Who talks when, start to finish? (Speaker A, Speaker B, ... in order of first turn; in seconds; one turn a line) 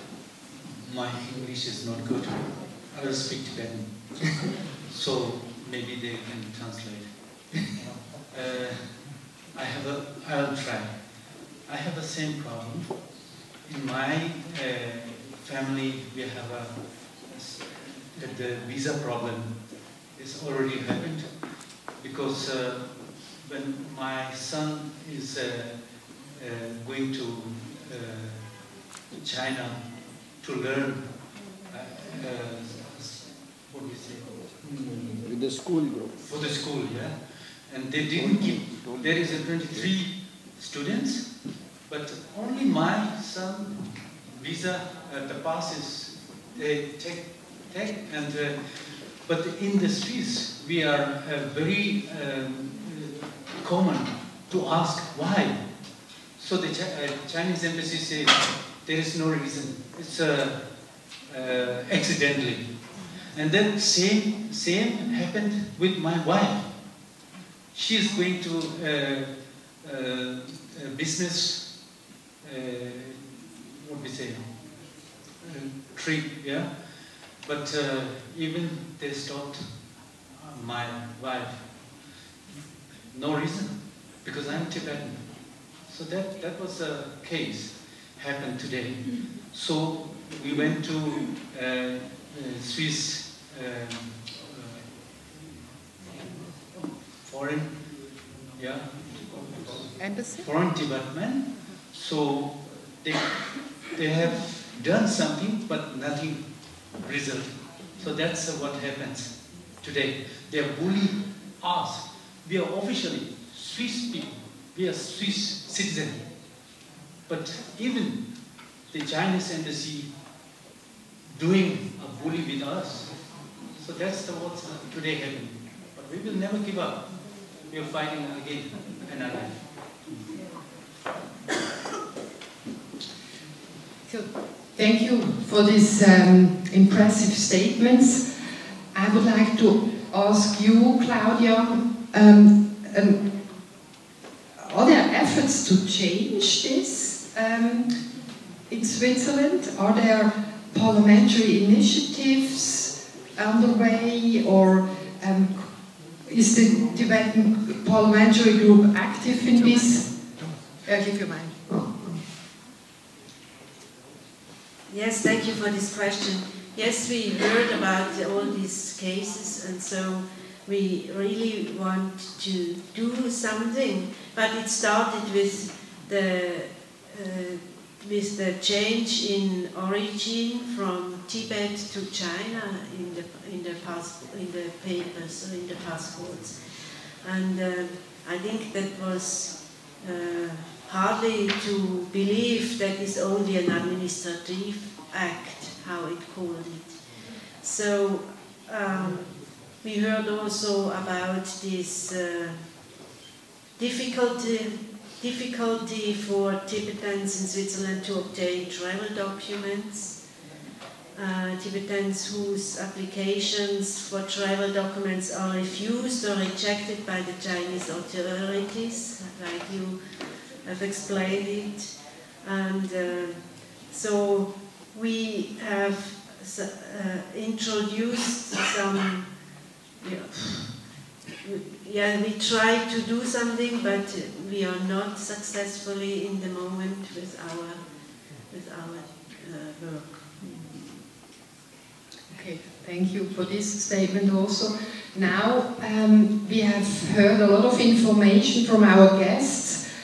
Speaker A: 0.8-35.2
Speaker B: 35.2-36.3
Speaker A: 36.2-67.0
Speaker B: 38.1-40.0
Speaker A: 67.7-82.0
Speaker A: 83.1-95.0
Speaker A: 96.1-116.5
Speaker C: 100.0-100.5
Speaker A: 117.3-120.1
Speaker A: 121.3-129.7
Speaker C: 134.1-138.2
Speaker C: 138.9-143.2
Speaker C: 144.6-147.9
Speaker C: 148.7-155.7
Speaker C: 156.3-160.1
Speaker C: 160.8-161.7
Speaker D: 164.9-186.6
Speaker D: 187.2-197.0
Speaker D: 197.6-202.6
Speaker D: 203.8-210.2
Speaker D: 211.2-220.0
Speaker D: 220.6-229.3
Speaker D: 230.0-230.7
Speaker D: 231.4-237.8
Speaker D: 238.5-240.3
Speaker C: 242.3-249.8